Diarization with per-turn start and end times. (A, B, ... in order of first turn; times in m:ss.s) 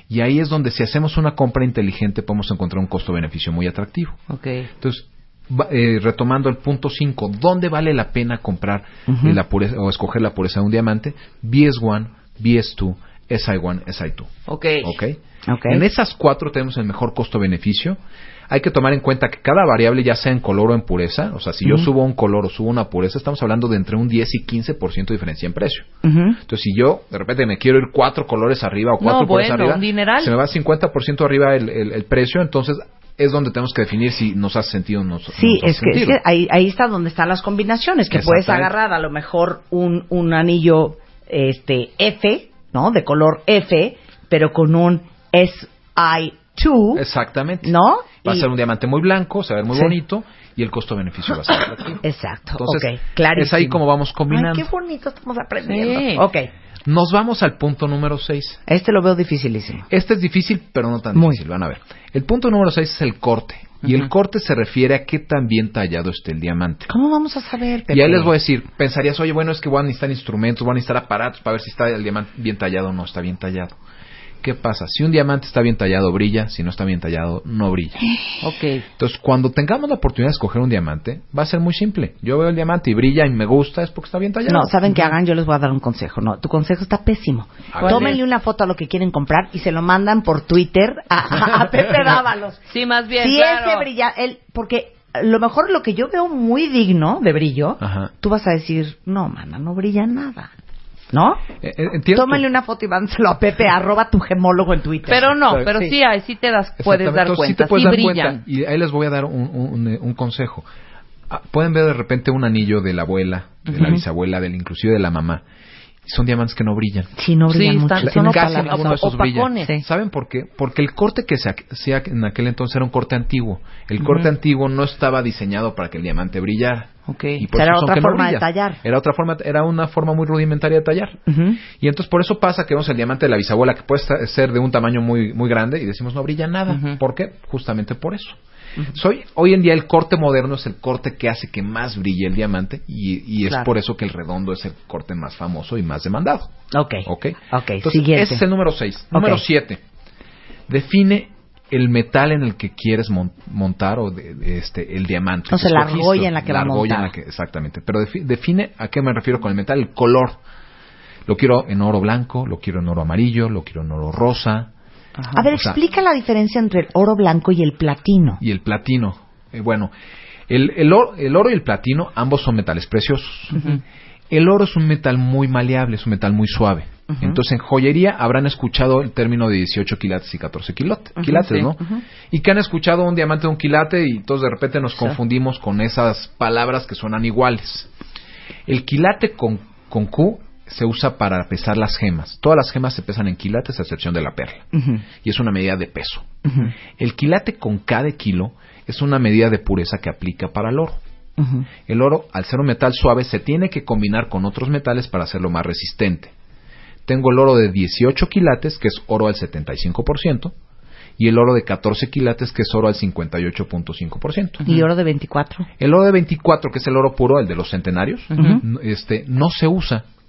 0:00.1-0:04.2 A
0:04.3-0:04.7 B
0:04.8-0:18.0 A
0:09.1-0:09.4 C
0:14.5-0:14.9 B
0:15.5-0:15.8 C
0:18.5-0:25.9 A
0:26.0-0:26.4 C
0:26.4-0:36.2 A
0:29.0-0:30.3 B
0:35.3-0:47.0 C
0:38.1-0:38.7 A
0:47.0-0:47.7 A
0:47.6-0:48.5 C
0:48.2-0:52.0 A
0:52.0-0:56.5 C
0:52.6-0:54.7 A
0:55.7-0:56.2 B
0:56.9-0:58.6 A
0:58.7-0:59.9 C
0:59.9-1:06.9 A
1:01.2-1:01.4 C
1:06.9-1:08.3 C
1:07.9-1:13.8 A
1:14.4-1:18.0 A
1:18.4-1:18.8 B
1:19.0-1:24.8 A
1:24.5-1:32.6 C
1:27.7-1:28.2 A
1:27.8-1:28.2 B
1:32.7-1:33.9 B
1:33.2-1:40.5 C
1:37.8-1:38.1 A
1:41.1-1:41.4 C
1:41.6-1:42.4 A
1:42.1-1:45.9 C
1:45.1-1:48.4 B
1:45.4-1:45.8 A
1:46.8-1:50.7 A
1:51.3-1:55.4 A
1:53.7-1:54.0 B
1:56.1-1:57.1 A
1:57.2-1:59.0 C
1:57.5-1:59.7 B
1:58.0-2:18.4 A
2:07.1-2:07.4 B
2:07.5-2:08.8 C
2:11.3-2:11.6 C
2:16.7-2:17.0 B
2:18.9-2:26.5 A
2:26.7-2:28.4 C
2:27.1-2:29.8 A
2:29.1-2:29.4 C
2:30.7-2:40.4 A
2:35.5-2:37.1 C
2:41.3-2:44.7 A
2:45.3-2:48.4 C
2:45.5-2:45.8 A
2:48.4-2:49.9 A
2:50.5-2:53.7 A
2:54.3-3:07.9 A
2:57.1-2:57.4 C
3:01.2-3:02.0 C
3:08.7-3:14.7 A
3:14.7-3:15.0 C
3:15.2-3:16.3 A
3:16.5-3:16.7 C
3:16.9-3:21.0 A
3:21.4-3:21.7 C
3:21.9-3:26.3 A
3:27.1-3:30.5 A
3:31.2-3:34.6 A
3:34.7-3:35.7 C
3:35.8-3:40.0 A
3:38.3-3:38.6 B
3:38.4-3:38.6 C